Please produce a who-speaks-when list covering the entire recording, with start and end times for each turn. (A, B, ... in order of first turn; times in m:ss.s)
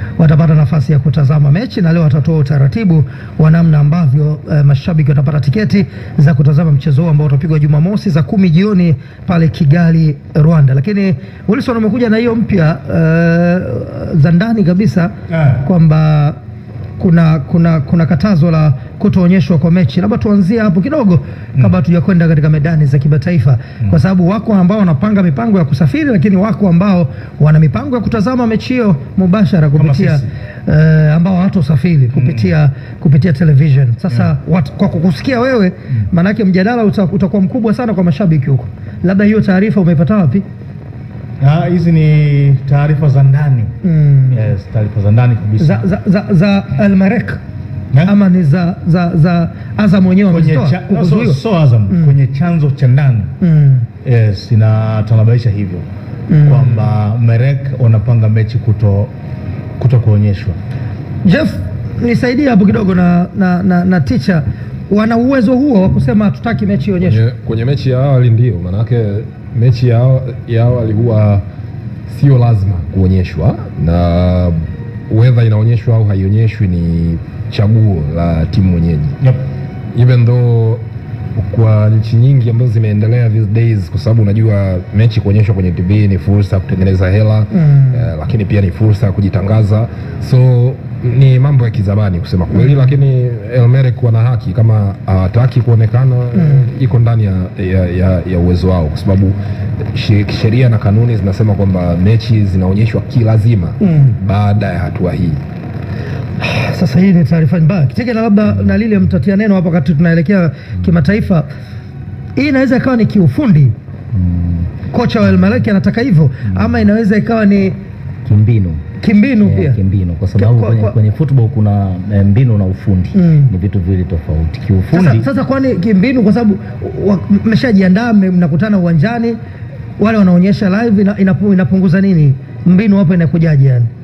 0:00.2-0:16.4 A
0:17.0-0:40.4 A
0:29.8-0:30.2 B
0:32.1-0:32.5 B
0:41.4-0:43.7 B
0:43.8-0:44.5 A
0:44.3-0:45.8 B
0:45.6-0:47.4 A
0:48.0-0:52.1 A
0:50.3-0:53.3 B
0:53.4-0:53.9 A
0:54.0-0:55.8 B
0:56.3-0:56.8 A
0:56.4-0:59.1 B
0:59.8-1:00.6 B
1:01.2-1:07.2 A
1:07.0-1:11.4 C
1:12.1-1:14.5 C
1:15.1-1:19.1 C
1:19.9-1:20.8 C
1:21.4-1:39.4 C
1:27.5-1:28.0 A
1:32.5-1:32.9 A
1:36.3-1:36.6 A
1:39.9-1:45.4 C
1:43.8-1:44.2 A
1:46.4-1:51.4 A
1:52.4-1:53.7 A
1:54.1-1:54.7 D
1:54.9-1:57.8 A
1:58.2-1:58.8 D
1:59.0-1:59.8 A
1:59.4-2:05.2 D
2:00.4-2:01.0 A
2:03.1-2:03.5 A
2:04.9-2:09.4 A
2:10.0-2:13.9 A